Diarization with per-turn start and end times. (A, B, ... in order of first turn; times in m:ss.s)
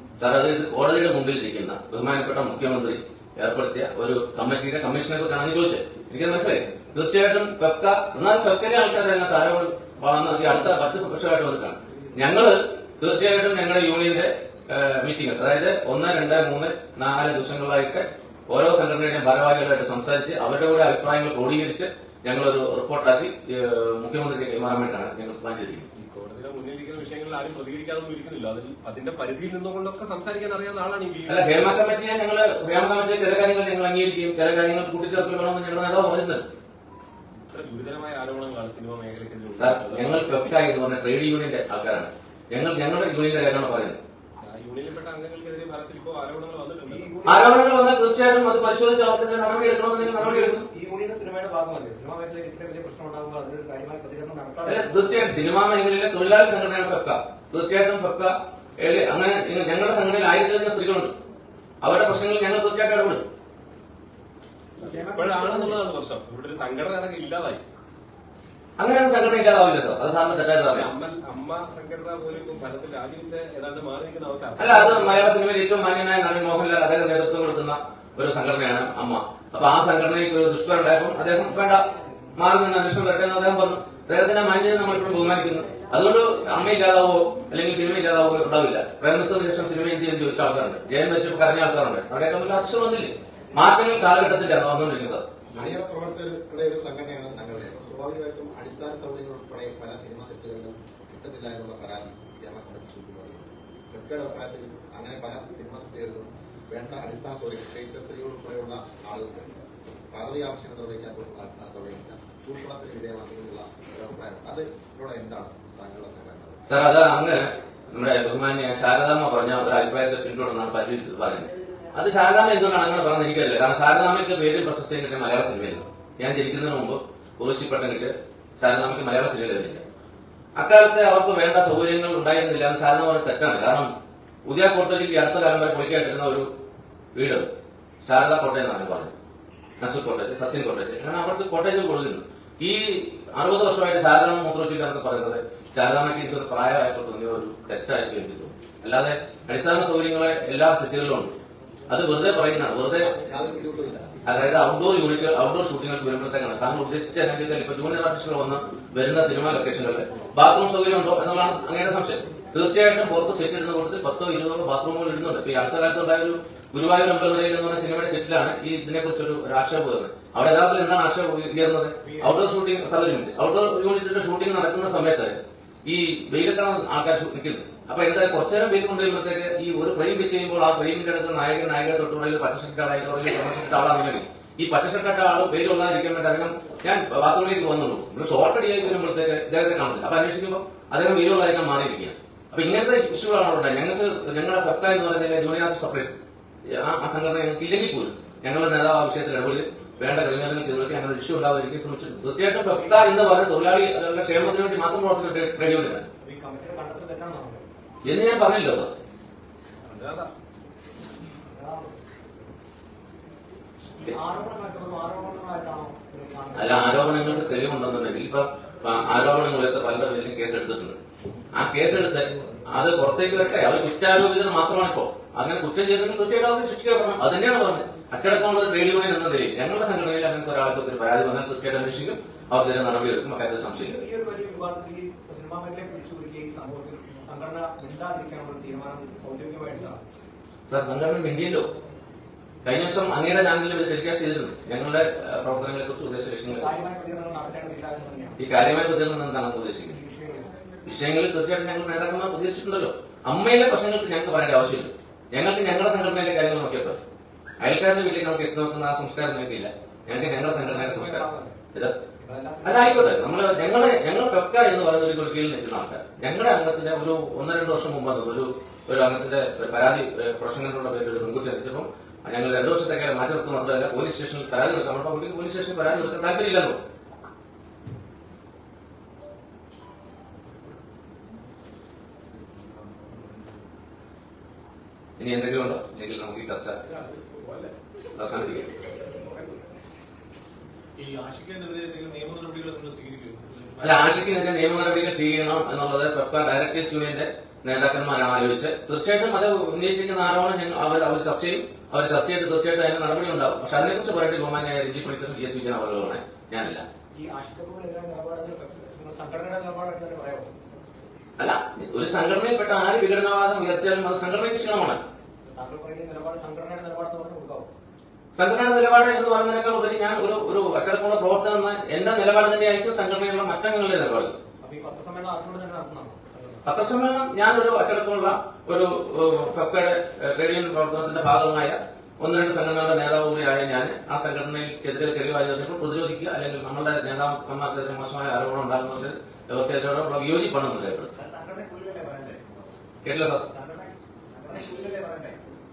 0:00.2-0:25.9 A
0:26.0-0:31.7 B
0:31.3-0:36.5 A
0:37.5-0:40.4 B
0:39.6-0:44.0 A
0:44.4-0:47.2 B
0:46.9-0:47.9 C
0:47.2-0:50.7 A
0:50.0-0:55.3 C
0:54.7-1:01.2 A
1:01.8-1:03.3 A
1:04.8-1:07.6 B
1:04.8-1:05.8 C
1:08.8-1:10.9 A
1:10.8-1:15.3 B
1:14.6-1:35.3 A
1:35.5-1:56.6 D
1:56.7-2:09.8 A
2:10.6-2:13.9 A
2:14.4-2:16.5 A
2:17.2-2:17.5 A
2:18.0-2:19.1 A
2:19.8-2:31.4 A
2:31.9-2:33.1 A
2:33.0-2:34.1 D
2:34.2-3:26.1 A
2:52.0-2:52.4 C
3:22.7-3:23.2 C
3:26.2-3:27.6 C
3:28.0-3:28.9 A
3:29.8-3:30.3 B
3:31.5-3:32.1 C
3:34.0-3:37.5 C
3:36.6-3:41.0 A
3:41.5-3:54.0 A
3:53.7-4:00.0 C
4:00.7-4:01.7 A
4:02.6-4:06.8 A
4:06.5-4:08.4 C
4:08.4-4:10.0 A
4:09.9-4:10.5 C
4:10.9-4:17.0 A
4:17.6-4:22.0 A
4:20.5-4:21.6 C
4:22.2-4:23.2 C
4:22.6-4:36.8 A
4:45.2-4:46.8 A
4:46.8-4:47.8 B
4:48.2-4:48.7 A
4:49.1-4:49.6 B
4:51.0-4:54.2 B
4:53.8-5:06.8 A
5:07.2-5:10.6 C
5:11.4-5:15.0 A
5:15.5-5:17.7 C
5:18.4-5:24.4 A
5:24.6-5:26.7 C
5:26.6-5:41.1 A
5:41.2-5:42.5 C
5:43.0-5:43.4 A
5:43.4-5:45.4 C